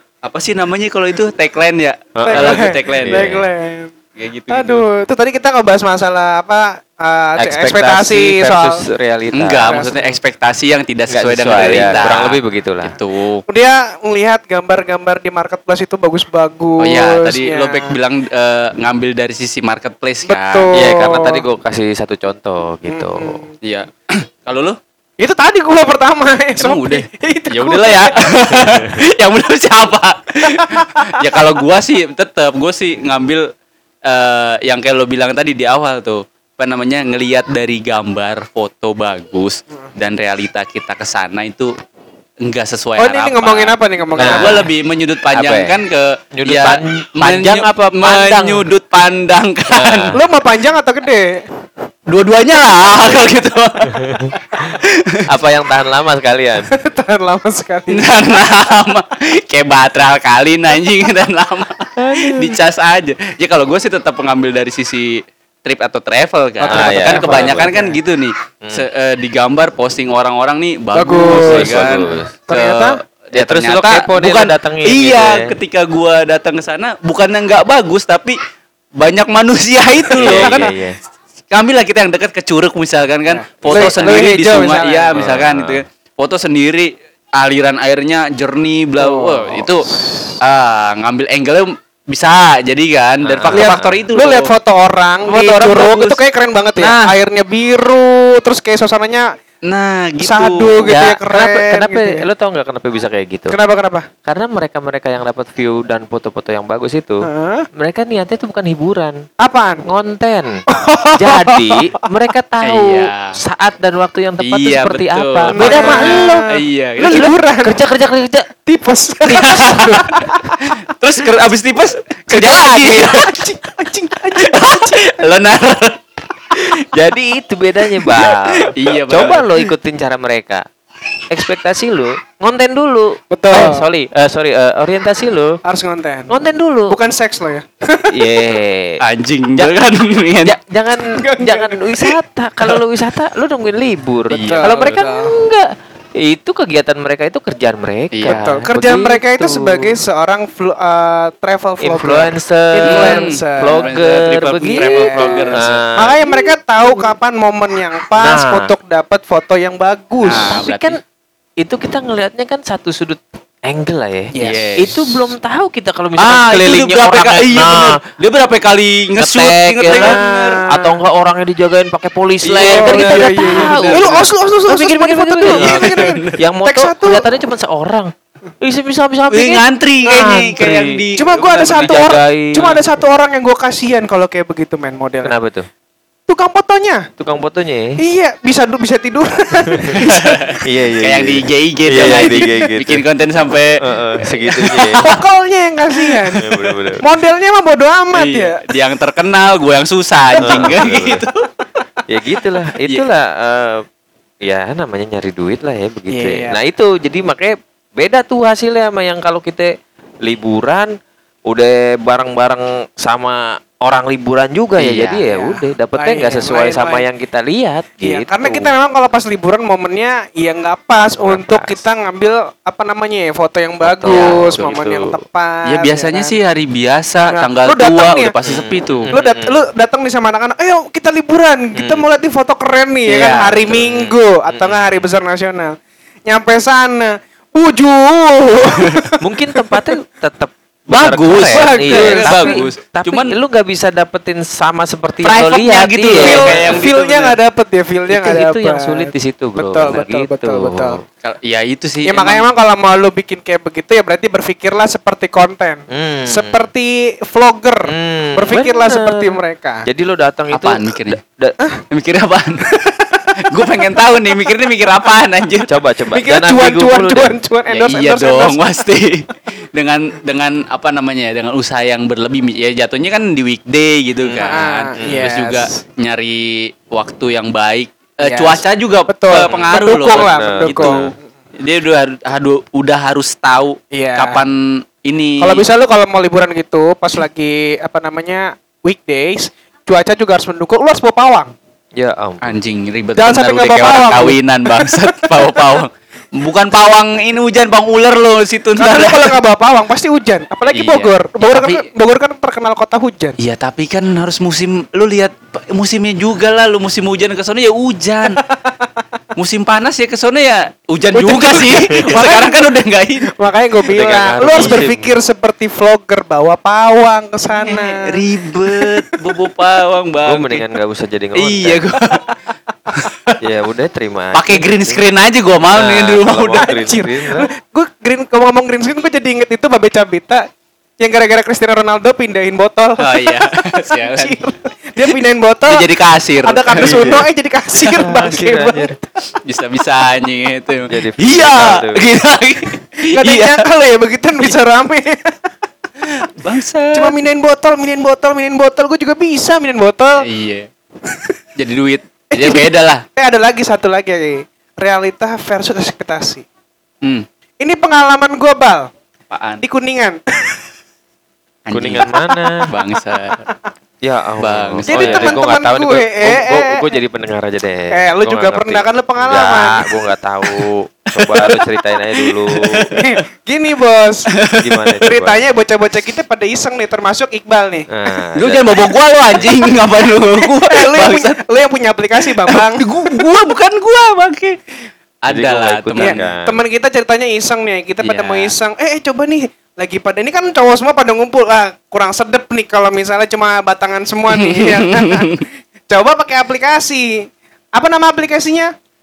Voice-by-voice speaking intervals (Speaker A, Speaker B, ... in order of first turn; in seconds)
Speaker A: 0.2-3.3, 4.2-4.9, 9.3-13.4, 16.8-20.7, 23.6-24.8, 26.6-33.5, 34.1-41.7, 42.4-50.1, 52.1-54.0, 54.8-55.2, 57.9-78.4, 79.0-80.8, 81.5-89.9, 90.4-94.5, 95.3-96.2, 96.8-97.1, 99.6-101.2, 112.6-113.4, 114.4-117.3, 119.3-123.4, 124.3-126.0, 128.1-129.5, 139.0-140.6, 144.3-144.8, 148.1-148.6, 152.9-155.8, 160.2-161.0, 164.3-165.2, 166.2-170.6, 172.4-174.2, 175.5-176.4, 179.3-182.1, 190.0-195.2, 198.1-201.4, 214.8-215.2, 224.1-224.7, 225.6-229.1, 233.1-233.7, 240.9-243.3, 245.2-247.4, 251.2-252.4, 260.5-261.2, 261.9-265.7, 267.7-285.6, 292.4-299.4, 300.7-301.9, 303.4-308.4, 309.4-313.3, 313.9-315.0, 317.5-320.6, 321.4-322.3, 322.9-323.4, 324.3-326.7, 333.0-334.4, 335.6-337.1, 339.4-343.6, 346.1-347.1, 350.2-350.7, 351.6-353.1, 359.3-359.6, 361.6-362.1, 362.6-363.4, 364.4-365.4, 371.2-371.6, 372.4-373.2, 374.4-374.6, 378.4-381.4, 382.4-384.6, 385.2-386.2, 394.3-395.4
Speaker B: 2.1-3.5, 7.4-9.8, 11.1-12.9, 20.7-23.4, 44.2-44.7, 45.3-45.8, 46.3-48.7, 49.7-50.2, 52.9-53.2, 53.9-54.4, 55.3-56.7, 62.0-62.6, 66.6-67.9, 71.2-72.3, 73.3-75.5, 80.2-81.0, 83.7-84.3, 85.1-85.8, 93.2-94.0, 101.3-103.6, 104.2-109.2, 109.8-110.6, 111.2-116.5, 117.1-118.5, 119.2-119.8, 126.6-130.6, 131.3-135.6, 136.3-137.0, 138.1-139.0, 140.4-150.0, 151.8-157.1, 158.2-158.7, 160.3-161.0, 161.6-168.0, 169.2-181.0, 181.8-182.8, 185.2-185.7, 187.2-188.0, 189.7-190.1, 190.6-193.0, 193.8-195.1, 196.4-197.0, 200.4-201.2, 202.1-203.8, 204.4-209.7, 210.2-210.9, 211.5-218.7, 221.2-221.8, 223.8-225.2, 228.4-229.6, 231.8-232.1, 233.7-235.0, 239.2-246.6, 248.1-251.0, 255.9-256.6, 257.9-261.6, 265.7-267.4, 275.0-275.2, 279.4-281.1, 292.0-292.5, 313.9-315.0, 320.2-321.8, 323.4-325.0, 325.7-327.5, 336.8-337.3, 337.8-338.9, 340.9-342.1, 361.7-362.6, 364.0-372.9, 374.6-375.4, 377.9-379.5, 385.3-386.6, 388.0-388.5
Speaker C: 2.2-3.9, 4.5-8.8, 9.6-10.2, 13.5-17.9, 20.2-21.4, 22.9-23.5, 25.2-28.7, 30.5-31.4, 43.0-44.6, 50.1-51.5, 56.7-58.2, 66.6-67.8, 71.0-73.0, 80.2-80.6, 83.3-85.2, 89.0-90.3, 93.5-99.3, 100.2-102.2, 103.5-104.1, 107.2-107.7, 109.4-109.8, 110.7-112.1, 115.5-117.8, 118.7-120.6, 122.3-125.3, 133.3-133.9, 135.6-136.4, 136.9-138.4, 141.1-142.2, 144.4-145.3, 148.3-153.9, 154.7-160.6, 164.3-164.6, 169.9-171.0, 172.6-177.2, 181.2-185.3, 186.3-187.1, 188.0-190.4, 195.0-198.6, 200.4-200.8, 206.1-206.6, 215.3-217.1, 218.0-226.3, 227.3-228.3, 229.1-239.9, 241.5-242.6, 246.1-251.0, 252.1-259.9, 262.9-263.3, 266.1-268.7, 274.3-275.7, 278.2-281.1, 283.9-284.4, 285.4-291.5, 293.2-295.8, 298.8-303.4, 311.1-312.7, 313.3-318.2, 326.5-330.5, 331.0-335.9, 336.4-339.0, 343.1-345.5, 346.9-350.2, 351.1-351.3, 352.3-356.4, 357.6-358.9, 359.6-360.6, 364.9-366.9, 367.9-369.9, 372.9-374.3, 375.0-377.9, 380.4-383.2, 386.0-398.7